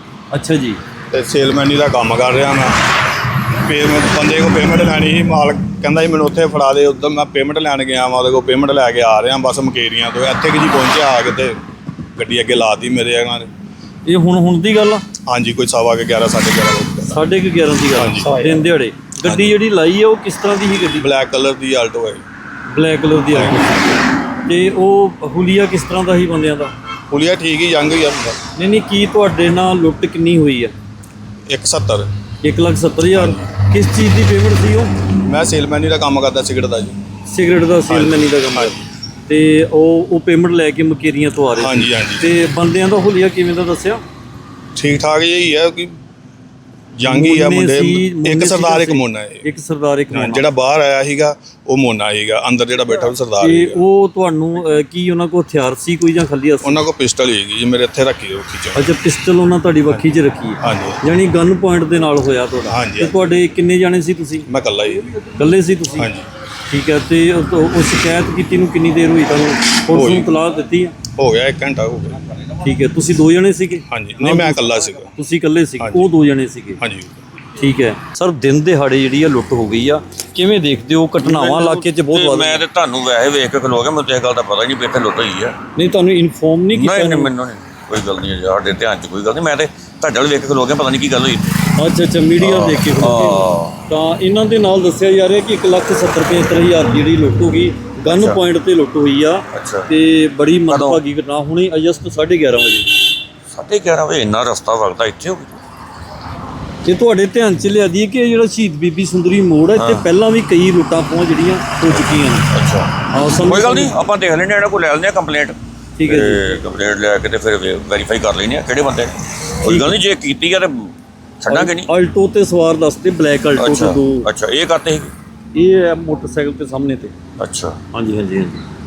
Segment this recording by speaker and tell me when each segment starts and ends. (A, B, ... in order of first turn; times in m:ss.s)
0:00.3-0:00.8 A
0:01.1-0:02.8 B
0:03.7-0:11.6 B
0:12.2-0:13.5 B
0:14.1-0:15.0 A
0:15.3-0:17.2 B
0:17.1-0:21.1 A
0:18.0-0:18.6 B
0:19.2-0:19.6 B
0:21.0-0:22.2 B
0:22.7-0:26.7 A
0:23.3-0:23.6 B
0:27.1-0:28.4 B
0:28.6-0:30.7 A
0:31.5-0:32.1 B
0:32.4-0:34.9 A
0:33.1-0:33.5 B
0:35.2-0:37.0 B
0:37.3-0:44.0 A
0:37.9-0:38.8 B
0:41.6-0:42.3 B
0:44.8-0:45.9 B
0:47.0-0:49.5 B
0:47.0-0:50.5 A
0:50.1-0:53.8 B
0:53.4-0:56.8 A
0:56.6-0:58.9 B
0:58.8-1:04.5 A
1:00.6-1:01.0 B
1:02.7-1:03.2 B
1:04.5-1:05.1 B
1:05.4-1:06.1 A
1:06.0-1:06.2 B
1:06.7-1:10.9 A
1:09.9-1:10.3 B
1:11.2-1:12.2 B
1:12.6-1:14.6 A
1:13.9-1:15.1 B
1:15.2-1:16.8 A
1:15.8-1:16.1 B
1:16.8-1:17.2 B
1:17.6-1:22.7 A
1:21.2-1:25.6 C
1:25.8-1:27.3 A
1:26.7-1:31.6 C
1:31.8-1:42.9 A
1:32.4-1:33.9 C
1:38.1-1:38.4 C
1:39.5-1:39.9 C
1:40.7-1:41.0 C
1:43.5-1:45.6 C
1:46.8-1:52.5 A
1:49.8-1:50.0 C
1:52.5-2:01.9 C
1:53.1-1:53.9 A
1:56.0-1:56.6 A
1:59.6-2:00.0 A
2:01.5-2:04.3 A
2:03.6-2:05.1 C
2:05.6-2:07.1 A
2:07.4-2:07.8 C
2:07.9-2:08.6 A